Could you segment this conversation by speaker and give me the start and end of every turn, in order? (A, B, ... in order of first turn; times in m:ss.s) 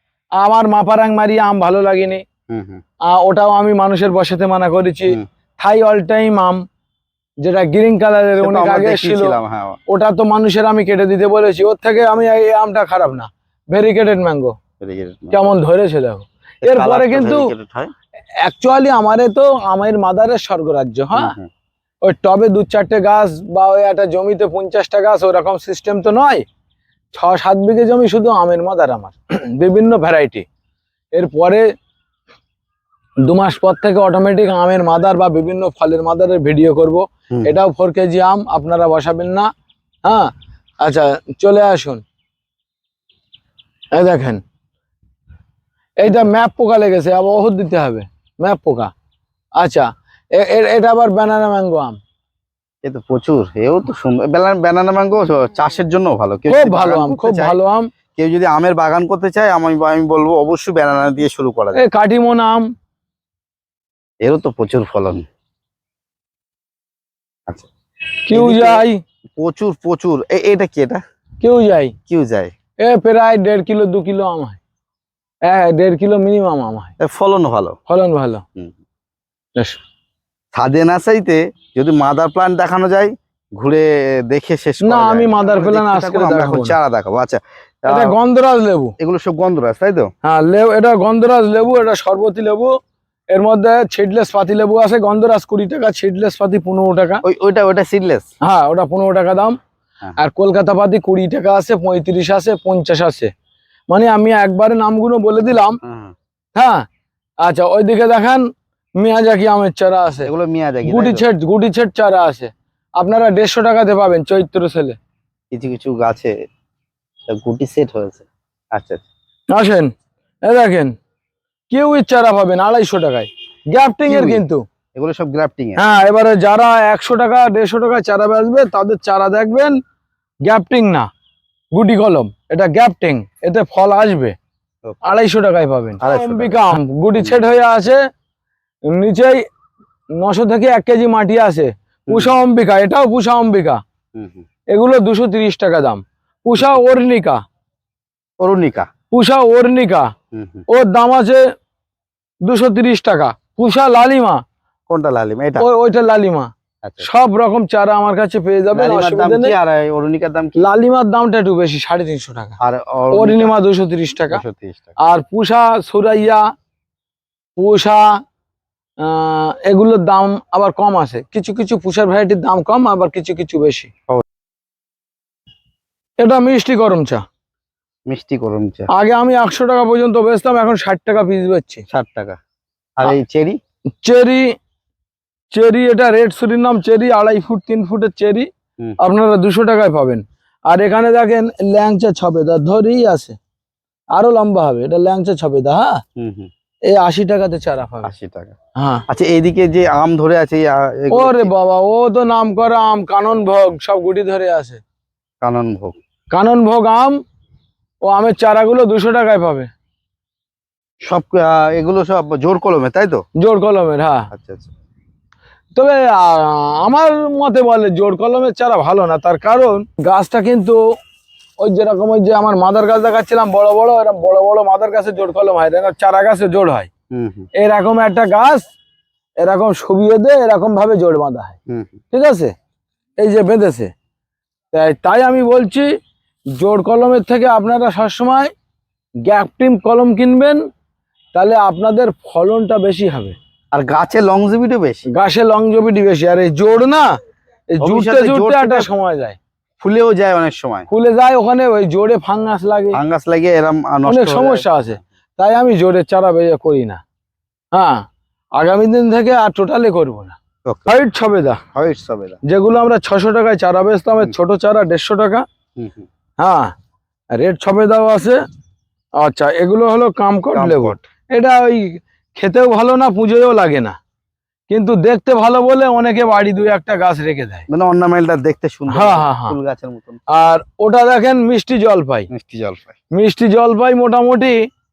0:00.4-0:02.2 A
0:02.5-0:02.8 B
0:03.1-0:06.6 A
0:07.4-0:14.6 A
0:08.4-0:09.8 B
0:14.8-0:15.5 B
0:15.3-0:17.5 A
0:16.6-0:17.9 B
0:18.4-0:21.4 A
0:21.1-0:21.5 B
0:22.0-0:26.4 A
0:27.1-0:30.5 A
0:31.2-0:31.7 A
0:33.3-0:39.5 A
0:40.0-0:42.0 A
0:43.9-0:44.4 A
0:46.0-0:48.9 A
0:49.6-0:52.0 A
0:52.8-0:57.6 B
0:56.5-0:57.9 A
0:58.2-1:01.8 B
1:01.8-1:02.7 A
1:04.2-1:05.3 B
1:08.3-1:09.0 A
1:08.3-1:11.0 B
1:11.4-1:11.9 A
1:12.1-1:12.5 B
1:12.8-1:14.6 A
1:15.5-1:16.9 A
1:17.0-1:17.8 B
1:17.9-1:18.4 A
1:20.5-1:28.2 B
1:24.8-1:26.8 A
1:27.9-1:29.0 A
1:29.0-1:30.1 B
1:30.2-1:32.8 A
1:33.3-1:37.2 A
1:37.2-1:38.3 B
1:38.4-1:39.6 A
1:40.2-1:43.3 A
1:43.9-1:45.8 A
1:45.8-1:46.2 B
1:46.6-1:46.9 A
1:47.4-1:48.5 A
1:49.0-1:50.3 A
1:50.3-1:51.3 B
1:50.8-1:55.0 A
1:55.5-1:56.3 B
1:57.3-1:59.0 B
1:59.5-1:59.9 A
2:00.4-2:00.9 A
2:01.7-2:04.6 A
2:04.1-2:04.4 B
2:05.0-2:05.8 B
2:05.8-2:09.8 A
2:10.4-2:11.1 A
2:11.7-2:14.4 A
2:14.8-2:15.2 B
2:15.0-2:18.0 A
2:16.0-2:17.4 B
2:18.9-2:19.4 A
2:20.2-2:23.8 A
2:22.1-2:22.4 B
2:24.2-2:24.5 B
2:24.7-2:27.4 A
2:28.4-2:28.9 B
2:29.1-2:30.1 A
2:30.3-2:30.7 B
2:30.7-2:31.4 A
2:32.4-2:34.4 A
2:34.9-2:35.7 B
2:35.6-2:39.6 A
2:38.7-2:40.6 B
2:40.6-2:42.6 A
2:42.6-2:43.5 B
2:43.1-2:44.4 A
2:44.3-2:45.0 B
2:45.0-2:46.4 A
2:47.6-2:48.2 A
2:49.0-2:53.9 A
2:56.2-2:57.2 A
2:58.1-2:58.9 B
2:58.9-3:01.8 A
3:01.9-3:02.4 B
3:03.0-3:03.6 B
3:04.0-3:04.6 A
3:05.5-3:08.5 A
3:09.0-3:13.4 A
3:14.2-3:16.0 A
3:16.2-3:16.5 B
3:16.9-3:18.1 A
3:18.0-3:18.6 B
3:18.8-3:19.0 A
3:19.1-3:21.5 B
3:21.1-3:24.8 A
3:25.4-3:26.0 B
3:26.3-3:27.2 A
3:28.0-3:29.7 A
3:31.0-3:33.2 B
3:33.4-3:34.3 A
3:34.3-3:34.7 B
3:35.8-3:40.8 A
3:41.6-3:46.9 A
3:47.1-3:47.5 B
3:47.6-3:48.7 A
3:49.4-3:51.6 A
3:51.7-3:52.0 B
3:52.1-3:52.5 A
3:53.2-3:53.9 A
3:54.7-3:55.9 A
3:56.5-3:58.5 A
3:59.3-4:00.6 A
4:01.3-4:03.4 A
4:03.7-4:05.1 B
4:05.1-4:07.1 A
4:07.7-4:09.4 A
4:07.8-4:08.9 B
4:09.8-4:10.9 B
4:10.9-4:13.0 A
4:12.9-4:14.7 B
4:14.1-4:17.0 A
4:17.7-4:18.0 A
4:18.6-4:20.4 A
4:20.6-4:20.9 B
4:20.9-4:21.6 A
4:21.7-4:22.4 B
4:22.4-4:25.4 A
4:25.8-4:26.1 B
4:26.4-4:26.7 A
4:27.3-4:28.4 A
4:29.2-4:34.0 A
4:30.5-4:31.0 B
4:34.7-4:37.7 A
4:37.7-4:40.2 B
4:38.9-4:39.6 A
4:40.3-4:42.3 A
4:42.3-4:43.0 B
4:43.1-4:44.7 A